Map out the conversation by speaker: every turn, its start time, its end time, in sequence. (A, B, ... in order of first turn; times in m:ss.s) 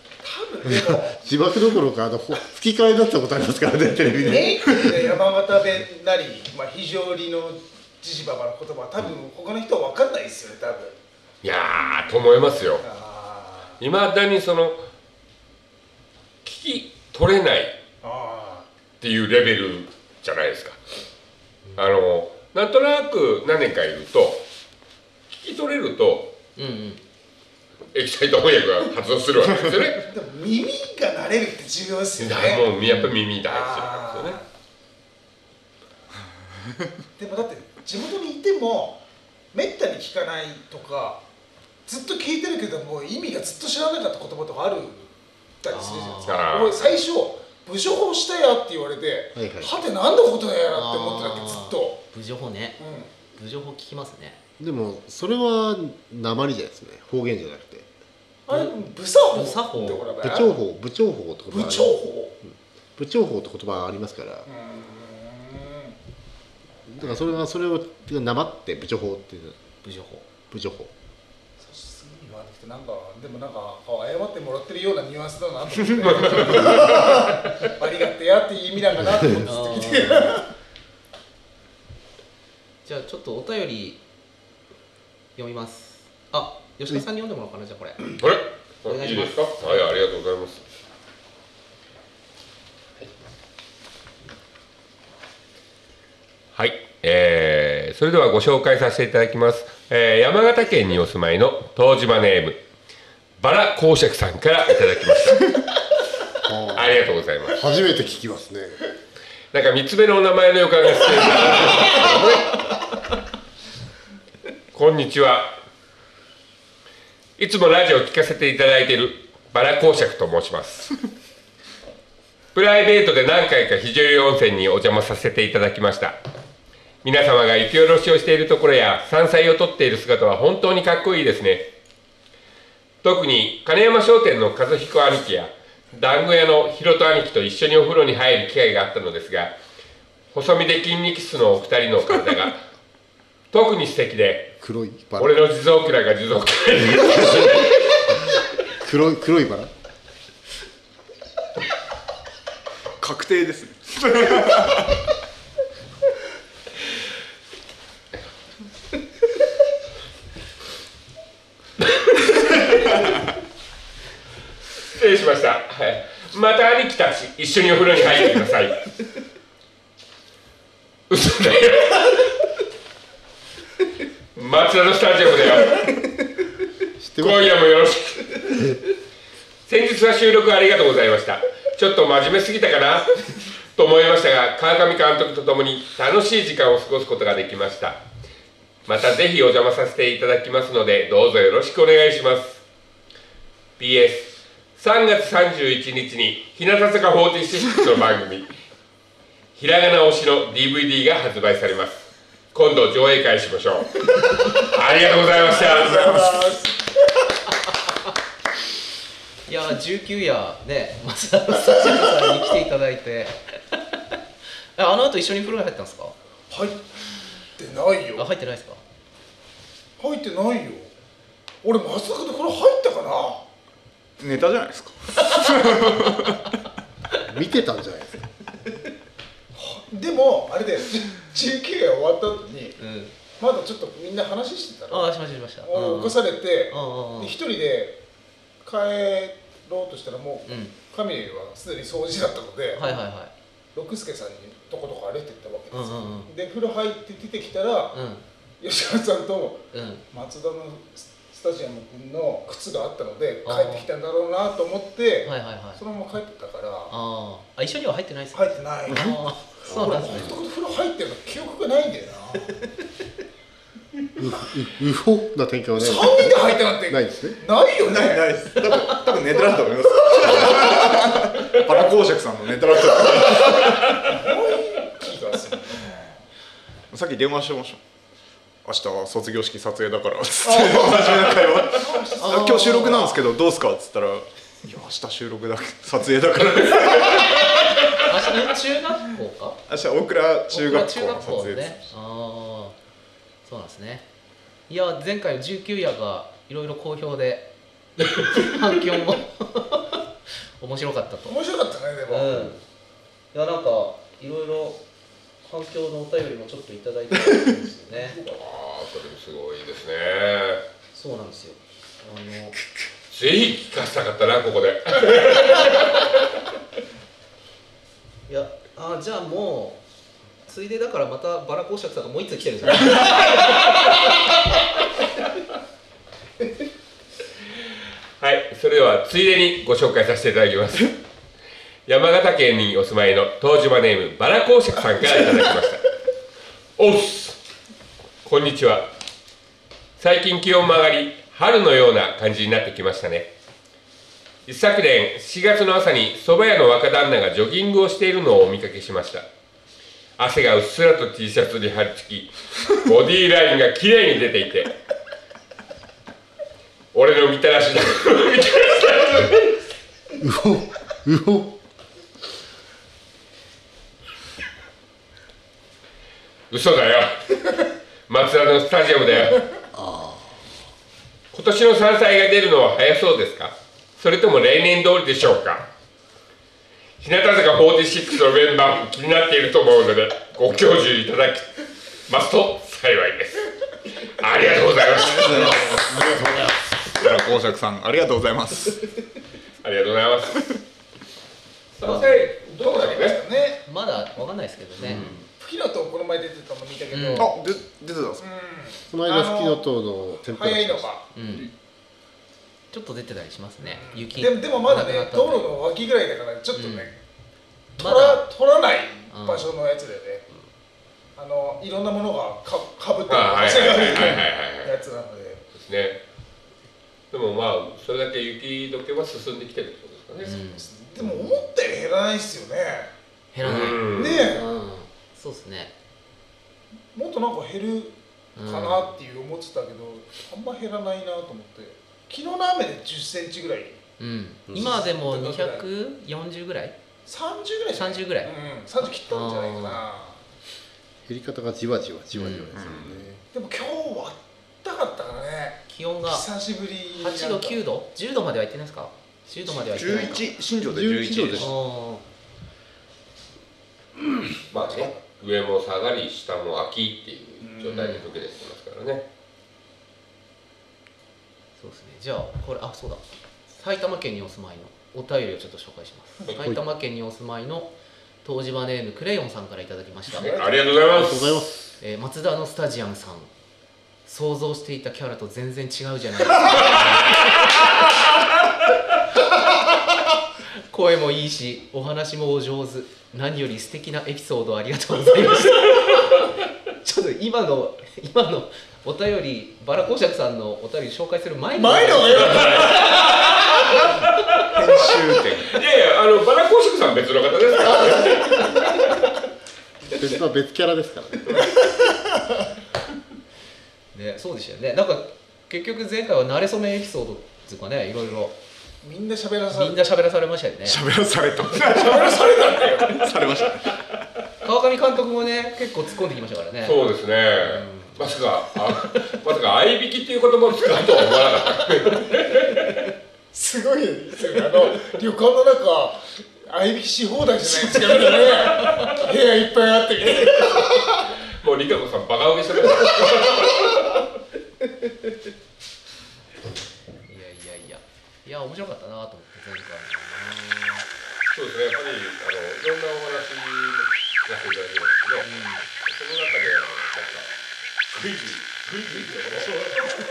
0:00.2-0:01.2 A
0:00.6-0:05.1 B
0:04.2-0:11.0 A
0:11.4-0:12.8 C
0:12.8-0:13.8 A
0:13.8-0:14.8 C
0:16.4-0:17.8 C
0:18.0-0:18.7 A
0:19.0-0:20.8 C
0:21.8-0:24.4 C
0:25.3-0:26.3 C
0:26.6-0:27.0 D
0:27.9-0:30.0 C
0:30.0-0:32.7 A
0:32.2-0:34.4 C
0:33.4-0:34.4 A
0:37.2-0:39.0 A
0:39.5-0:41.2 A
0:41.9-0:52.0 A
0:45.7-0:46.5 D
0:46.3-0:47.0 C
0:49.4-0:49.8 B
0:50.7-0:52.8 D
0:52.8-0:53.1 A
0:53.3-0:54.4 D
0:54.6-0:57.9 B
0:58.5-1:00.6 A
0:58.5-0:58.8 D
0:59.3-1:00.1 D
1:00.2-1:04.5 B
1:01.5-1:02.3 A
1:04.5-1:06.0 A
1:06.9-1:09.6 B
1:09.8-1:10.2 D
1:10.5-1:10.9 B
1:11.6-1:20.5 A
1:15.8-1:16.8 E
1:16.3-1:16.9 C
1:16.4-1:16.7 D
1:19.4-1:20.4 D
1:22.8-1:24.0 D
1:25.4-1:28.2 D
1:28.2-1:30.6 C
1:28.9-1:29.9 D
1:36.6-1:42.6 C
1:43.4-1:45.5 C
1:46.4-1:48.8 B
1:46.7-1:47.6 C
1:49.5-1:52.6 C
1:54.7-1:55.6 C
1:57.4-2:01.0 C
2:02.5-2:06.2 C
2:07.0-2:11.7 C
2:13.0-2:19.5 C
2:20.3-2:22.6 C
2:23.5-2:24.5 C
2:24.6-2:25.3 B
2:25.2-2:28.0 C
2:26.8-2:27.7 B
2:28.8-2:29.7 B
2:33.0-2:35.0 E
2:44.9-2:48.8 C
2:51.1-2:52.1 C
2:54.4-2:55.9 C
2:57.0-2:57.6 B
2:57.2-2:58.6 C
2:59.7-3:08.0 C
3:08.9-3:12.6 C
3:13.8-3:18.5 C
3:19.6-3:26.3 C
3:25.3-3:26.9 A
3:29.5-3:34.2 D
3:31.9-3:32.2 A
3:34.8-3:36.2 D
3:36.5-3:37.0 A
3:37.6-3:38.3 A
3:38.2-3:38.8 D
3:40.0-3:40.9 A
3:41.6-3:43.4 A
3:44.2-3:46.5 E
3:47.2-3:48.2 B
3:49.6-3:52.8 A
3:52.8-3:53.1 D
3:53.4-3:55.1 A
3:54.9-3:57.4 D
3:55.6-3:58.0 A
3:58.6-4:03.0 A
4:00.5-4:00.7 D
4:02.8-4:03.3 D
4:03.7-4:08.0 A
4:05.7-4:06.3 D
4:07.9-4:08.2 D
4:08.6-4:17.0 A
4:09.7-4:10.0 D
4:13.4-4:13.9 D
4:15.2-4:15.8 D
4:16.9-4:20.3 D
4:18.3-4:22.5 A
4:19.7-4:20.4 B
4:24.2-4:27.4 B
4:25.8-4:28.4 A
4:27.8-4:34.0 E
4:30.2-4:30.8 A
4:34.0-4:36.2 A
4:36.9-4:37.8 E
4:38.6-4:47.5 E
4:40.5-4:42.8 A
4:42.2-4:43.2 D
4:48.0-4:49.6 D
4:49.7-4:51.9 E
4:50.5-4:52.8 D
4:53.4-4:54.0 D
4:54.7-4:57.5 D
4:58.2-5:00.0 D
5:00.6-5:01.4 D
5:01.3-5:02.5 A
5:02.1-5:02.6 D
5:03.3-5:04.8 D
5:05.4-5:08.2 D
5:08.2-5:10.6 C
5:10.9-5:12.6 D
5:13.1-5:16.1 C
5:18.3-5:19.8 D
5:20.5-5:23.7 D
5:28.2-5:31.0 C
5:31.9-5:35.9 C
5:36.8-5:37.4 C
5:38.2-5:38.9 C
5:40.0-5:43.3 C
5:44.5-5:49.3 C
5:50.2-5:54.7 C
5:56.9-5:59.6 C
6:00.2-6:01.6 B
6:06.5-6:07.4 C
6:08.1-6:09.4 C
6:09.7-6:10.4 B
6:11.3-6:15.7 C
6:17.0-6:25.9 C
6:25.0-6:26.0 E
6:25.7-6:26.6 B
6:26.9-6:28.9 E
6:29.6-6:30.6 C
6:31.8-6:33.2 C
6:31.8-6:32.3 D
6:31.8-6:33.6 A
6:33.6-6:35.2 D
6:35.3-6:37.4 A
6:36.9-6:37.3 D
6:37.2-6:38.2 E
6:38.2-6:39.7 A
6:38.9-6:40.9 B
6:40.3-6:41.1 A
6:41.2-6:41.5 D
6:42.7-6:45.5 D
6:43.7-6:47.0 A
6:46.5-6:46.9 D
6:47.8-6:50.3 A
6:47.8-6:48.2 D
6:49.1-6:49.5 D
6:51.2-6:55.4 A
6:53.1-6:54.8 C
6:53.9-6:54.2 D
6:55.5-6:56.0 C
6:57.1-7:00.3 C
7:00.2-7:00.7 D
7:00.6-7:02.9 A
7:03.3-7:05.7 D
7:03.4-7:04.4 C
7:03.9-7:04.5 A
7:06.9-7:13.8 A
7:08.4-7:09.0 D
7:14.0-7:16.8 D
7:14.5-7:15.6 A
7:17.1-7:20.2 A
7:17.8-7:19.8 D
7:21.1-7:23.2 B
7:22.1-7:22.5 D
7:22.6-7:23.0 C
7:23.3-7:27.6 A
7:25.7-7:26.3 D
7:27.0-7:30.3 D
7:29.5-7:31.5 E
7:30.7-7:31.5 B
7:31.4-7:32.0 D
7:34.5-7:39.0 C
7:37.4-7:37.9 A
7:37.7-7:38.0 D
7:41.6-7:47.7 D
7:48.2-7:50.4 D
7:50.1-7:51.5 C
7:50.3-7:50.6 A
7:50.4-7:51.6 B
7:51.8-7:53.3 D
7:54.1-7:57.3 D
8:00.7-8:06.3 D
8:06.8-8:13.2 D
8:11.6-8:13.1 A
8:12.1-8:12.9 C
8:14.5-8:15.6 E
8:15.5-8:18.8 C
8:19.9-8:21.5 B
8:21.3-8:21.9 A
8:23.9-8:28.4 D
8:28.8-8:29.8 A
8:29.5-8:30.8 D
8:30.7-8:33.8 E
8:31.7-8:33.1 A
8:34.4-8:38.1 D
8:36.6-8:42.7 C
8:43.3-8:51.0 A
8:47.6-8:48.9 D
8:51.3-8:53.9 C
8:57.1-9:00.9 D
9:01.3-9:07.3 C
9:05.2-9:05.7 D
9:07.9-9:09.9 C